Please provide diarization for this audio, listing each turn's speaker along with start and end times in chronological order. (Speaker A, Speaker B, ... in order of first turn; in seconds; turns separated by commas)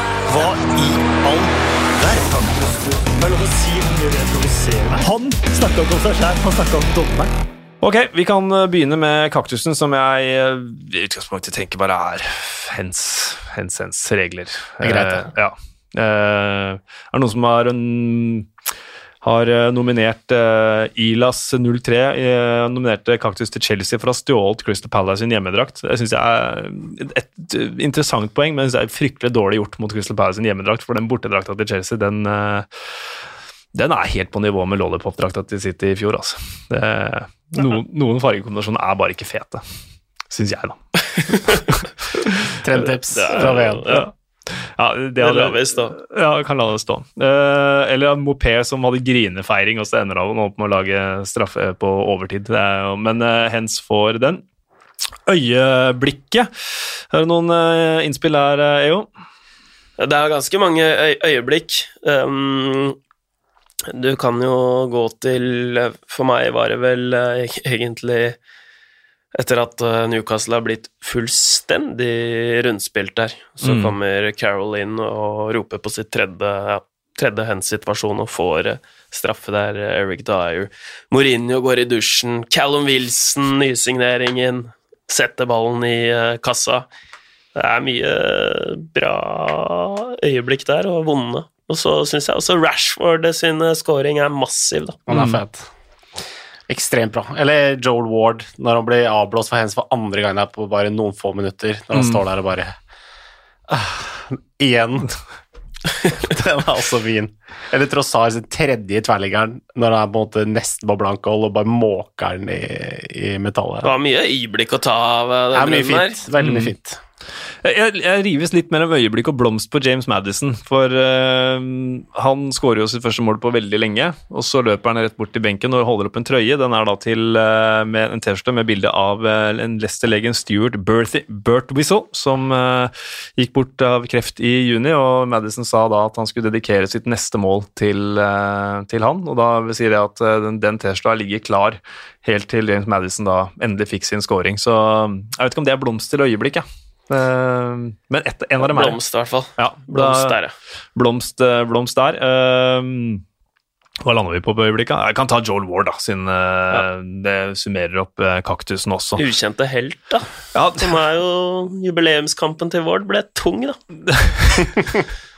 Speaker A: 0.2-7.3, Speaker B: 7.8-18.5, Speaker C: 14.8-15.3, Speaker B: 19.2-32.7, Speaker B: 33.7-39.6, Speaker B: 40.3-54.4, Speaker C: 42.6-44.0, Speaker D: 43.1-44.0, Speaker D: 45.2-46.0, Speaker B: 55.3-59.1, Speaker D: 60.0-63.0, Speaker D: 63.9-68.4, Speaker D: 69.3-86.9, Speaker B: 73.6-73.9, Speaker D: 87.5-95.0, Speaker C: 95.1-95.7, Speaker B: 95.1-95.4, Speaker C: 96.7-102.8, Speaker B: 101.9-102.2, Speaker C: 103.7-105.1, Speaker C: 106.0-113.9, Speaker D: 113.8-116.2, Speaker C: 115.5-117.0, Speaker B: 116.4-116.7, Speaker B: 117.6-149.0, Speaker D: 148.6-150.5, Speaker B: 149.6-150.4, Speaker B: 150.9-153.2, Speaker B: 154.0-159.2, Speaker D: 159.2-163.8, Speaker B: 160.5-160.9, Speaker B: 164.1-164.8